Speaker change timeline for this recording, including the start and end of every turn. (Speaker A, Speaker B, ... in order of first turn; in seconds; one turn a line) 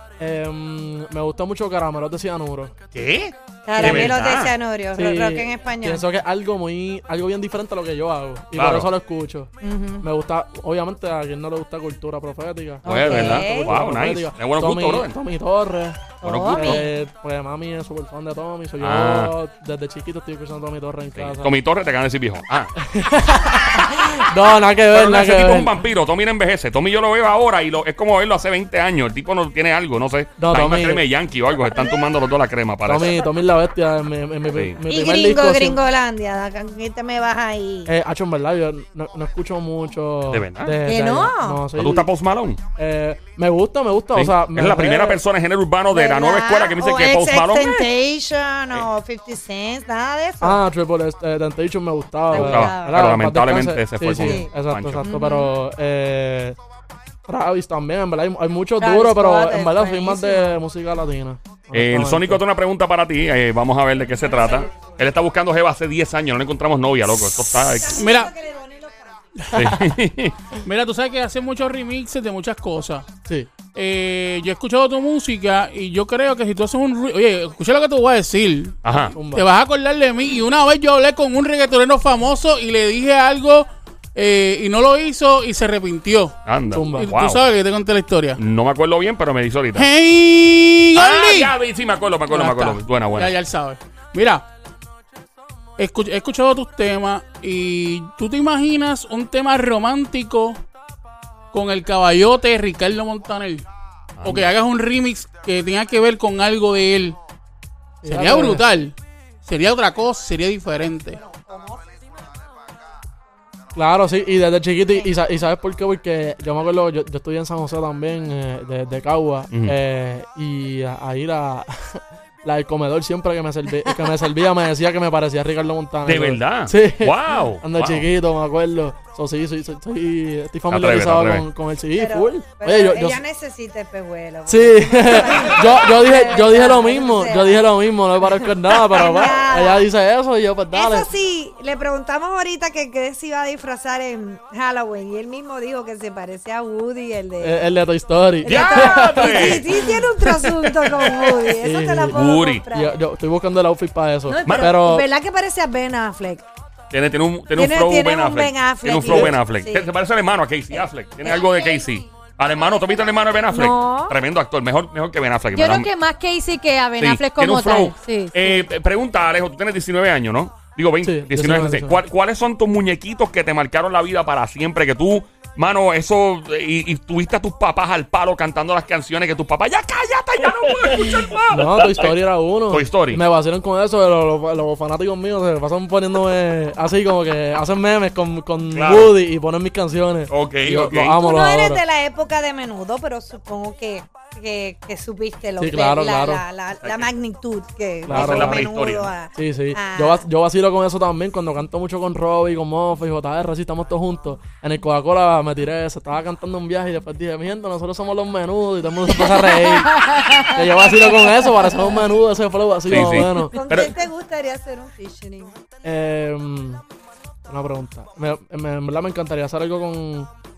Speaker A: 0.2-2.7
Speaker B: 2.9-4.5
Speaker C: 3.6-6.0
Speaker A: 3.8-4.2
Speaker A: 4.9-21.5
Speaker B: 8.5-8.9
Speaker C: 9.6-10.0
Speaker B: 12.8-15.2
Speaker C: 12.8-13.8
Speaker B: 16.2-16.8
Speaker C: 16.2-16.9
Speaker B: 18.8-19.3
Speaker B: 21.1-22.7
Speaker A: 22.8-25.8
Speaker B: 24.9-33.2
Speaker A: 30.4-31.0
Speaker A: 32.8-35.8
Speaker B: 34.5-34.8
Speaker C: 34.9-37.9
Speaker A: 37.9-42.1
Speaker B: 40.3-40.8
Speaker C: 40.8-41.6
Speaker B: 41.7-42.6
Speaker A: 42.8-45.2
Speaker B: 44.1-47.9
Speaker C: 45.9-50.6
Speaker A: 50.4-56.6
Speaker C: 52.3-53.1
Speaker B: 52.3-55.0
Speaker C: 54.2-55.5
Speaker A: 57.3-62.4
Speaker C: 58.8-60.6
Speaker B: 61.7-68.0
Speaker C: 64.2-65.0
Speaker C: 67.6-69.2
Speaker D: 67.9-68.3
Speaker B: 69.5-70.4
Speaker D: 70.6-73.1
Speaker D: 73.7-78.8
Speaker B: 78.8-79.2
Speaker A: 79.1-79.5
Speaker D: 79.3-86.3
Speaker B: 86.4-87.4
Speaker A: 86.7-87.1
Speaker D: 87.0-88.4
Speaker B: 88.3-89.9
Speaker D: 89.7-91.5
Speaker B: 90.9-93.3
Speaker A: 92.3-92.8
Speaker D: 93.1-94.4
Speaker D: 95.8-100.6
Speaker D: 101.5-103.6
Speaker B: 104.2-104.5
Speaker D: 104.2-107.2
Speaker A: 108.0-108.6
Speaker D: 108.0-111.2
Speaker C: 111.1-111.9
Speaker A: 113.7-133.2
Speaker B: 119.5-119.8
Speaker B: 126.0-128.1
Speaker B: 130.7-131.5
Speaker C: 131.9-137.7
Speaker A: 134.5-141.1
Speaker C: 138.6-139.9
Speaker C: 140.7-147.6
Speaker A: 147.4-150.0
Speaker C: 148.4-153.0
Speaker B: 148.4-151.4
Speaker A: 151.6-155.1
Speaker B: 152.1-152.7
Speaker C: 154.3-156.4
Speaker B: 154.4-154.7
Speaker B: 156.9-165.9
Speaker C: 157.5-159.9
Speaker A: 159.0-159.3
Speaker C: 161.2-162.0
Speaker C: 163.5-164.2
Speaker E: 165.5-168.3
Speaker B: 167.0-183.2
Speaker A: 171.0-172.0
Speaker A: 181.5-191.8
Speaker B: 188.7-189.2
Speaker B: 190.3-191.1
Speaker C: 191.1-200.2
Speaker A: 195.6-196.4
Speaker B: 196.8-197.1
Speaker A: 198.0-198.7
Speaker B: 198.1-199.1
Speaker A: 199.3-213.6
Speaker E: 209.6-210.5
Speaker B: 212.8-213.9
Speaker C: 212.9-215.6
Speaker A: 215.8-216.8
Speaker A: 217.5-220.3